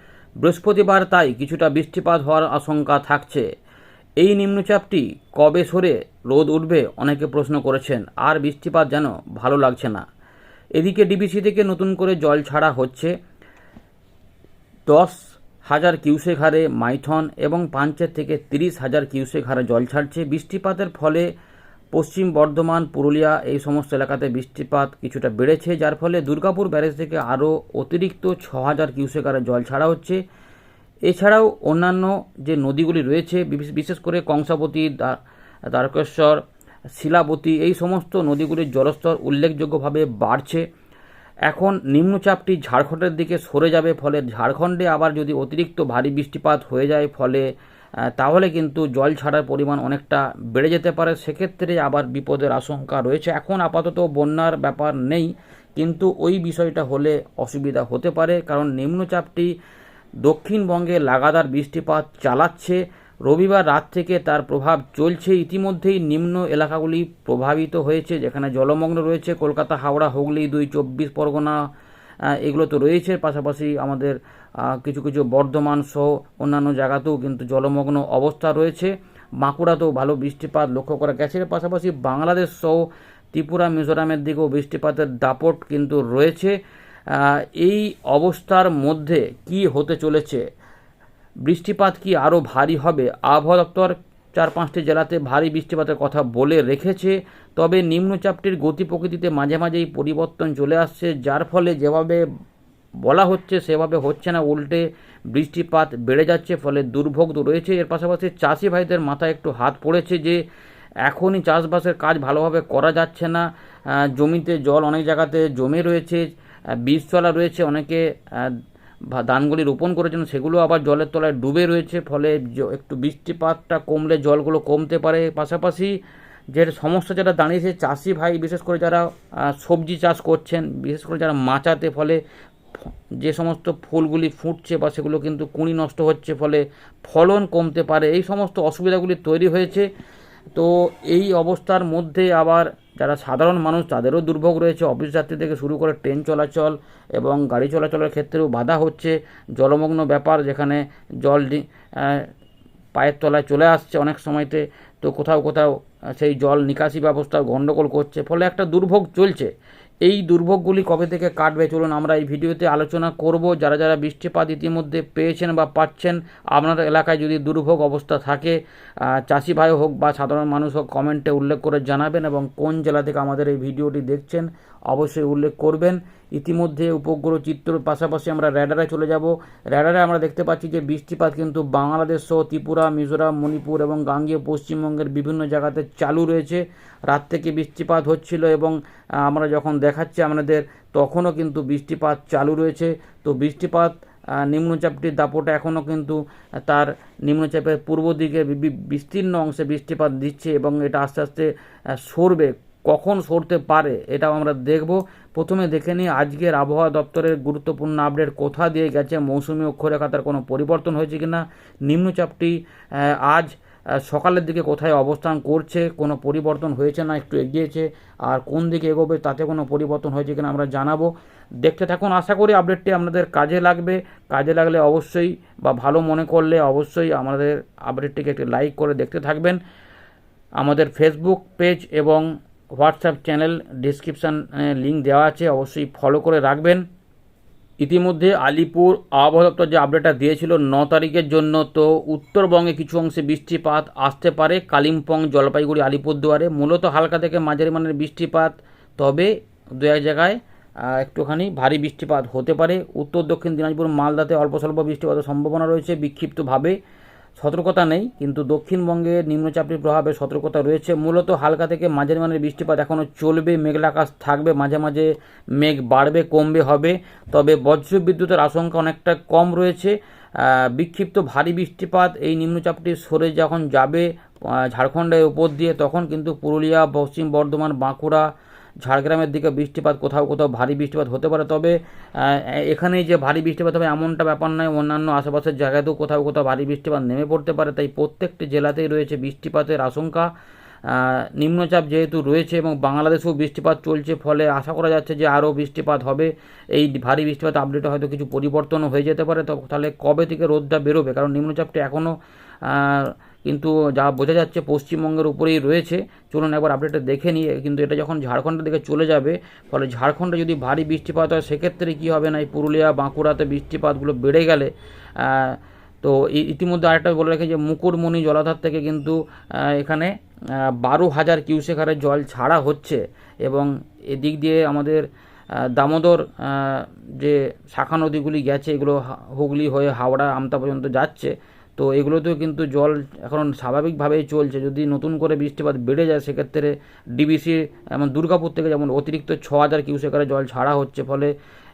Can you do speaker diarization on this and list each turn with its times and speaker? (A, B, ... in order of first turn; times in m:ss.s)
0:00.4-0:03.5 A
0:04.2-0:10.0 A
0:10.7-0:13.1 A
0:14.9-0:21.3 A
0:21.9-0:30.2 A
0:31.1-0:35.2 A
0:35.7-0:36.4 A
0:36.9-0:40.6 A
0:41.5-0:47.5 A
0:48.1-0:59.5 A
1:00.2-1:11.6 A
1:12.2-1:26.6 A
1:27.1-1:30.4 A
1:31.4-1:42.2 A
1:43.0-1:50.4 A
1:51.0-2:05.9 A
2:06.5-2:12.2 A
2:13.1-2:19.9 A
2:20.5-2:32.3 A
2:32.9-2:39.5 A
2:40.0-3:49.6 A
3:50.6-3:56.8 A
3:57.8-4:16.8 A
4:17.4-4:38.3 A
4:38.8-4:50.3 A
4:50.8-5:41.3 A